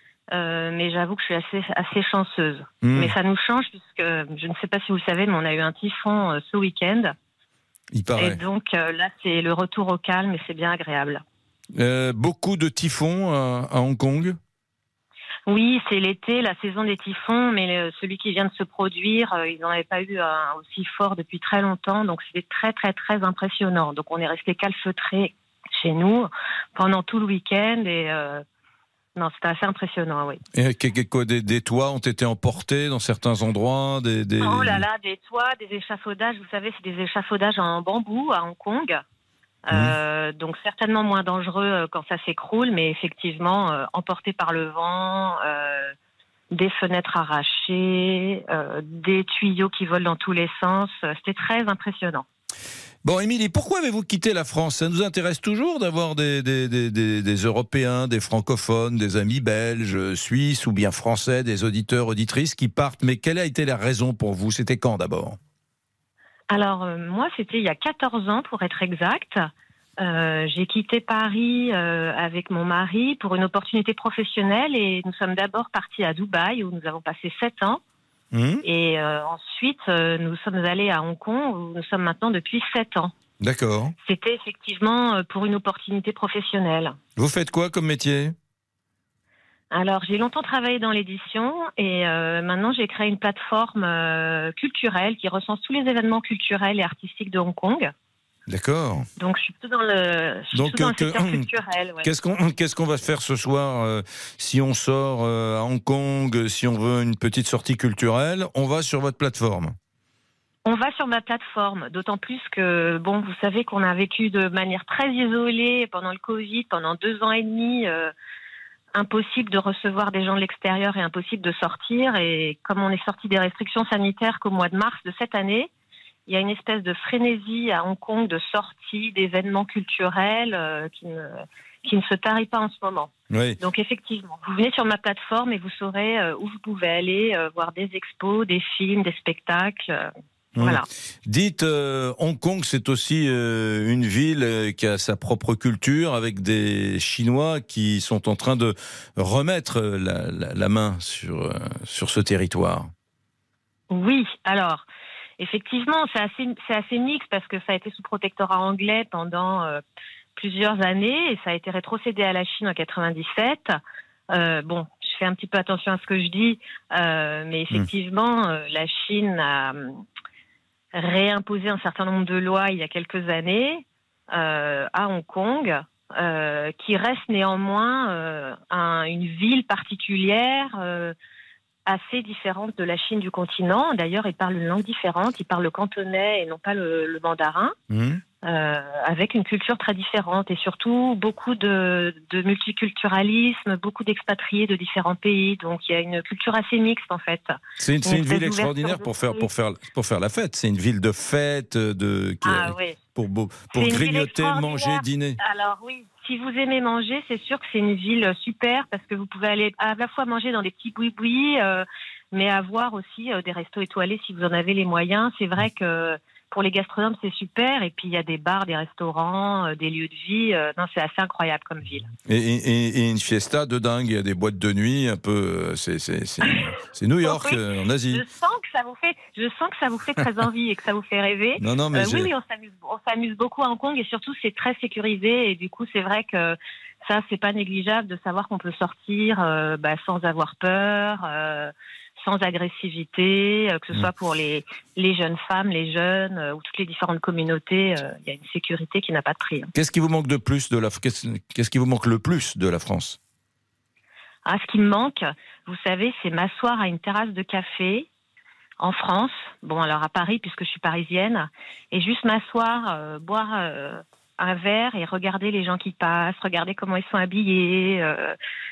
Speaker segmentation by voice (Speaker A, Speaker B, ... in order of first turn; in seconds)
Speaker A: 0.3-7.1, 8.2-11.2, 15.5-28.4, 29.2-30.4, 34.4-39.0, 39.7-45.9, 46.5-52.2, 66.5-69.5, 70.0-77.8, 78.6-83.1, 84.0-87.0, 89.7-97.9, 99.2-102.1, 110.7-118.1, 118.9-125.7, 126.3-140.9, 153.9-154.8, 155.4-159.8, 160.4-163.7, 164.3-170.0, 170.9-181.2, 181.9-187.8, 188.4-197.6, 198.1-199.5, 202.5-203.0, 203.7-222.1, 227.2-227.6, 228.1-249.7, 254.5-258.1, 258.8-268.3
Speaker B: 2.8-3.1, 8.0-8.4, 11.8-14.4, 30.5-34.9, 39.7-40.0, 53.0-65.4, 78.3-78.7, 83.4-83.9, 87.2-88.3, 98.5-99.1, 100.5-101.5, 102.0-109.8, 133.3-133.6, 140.6-152.9, 187.9-188.2, 197.8-205.4, 222.3-228.2, 231.6-232.3, 249.7-253.2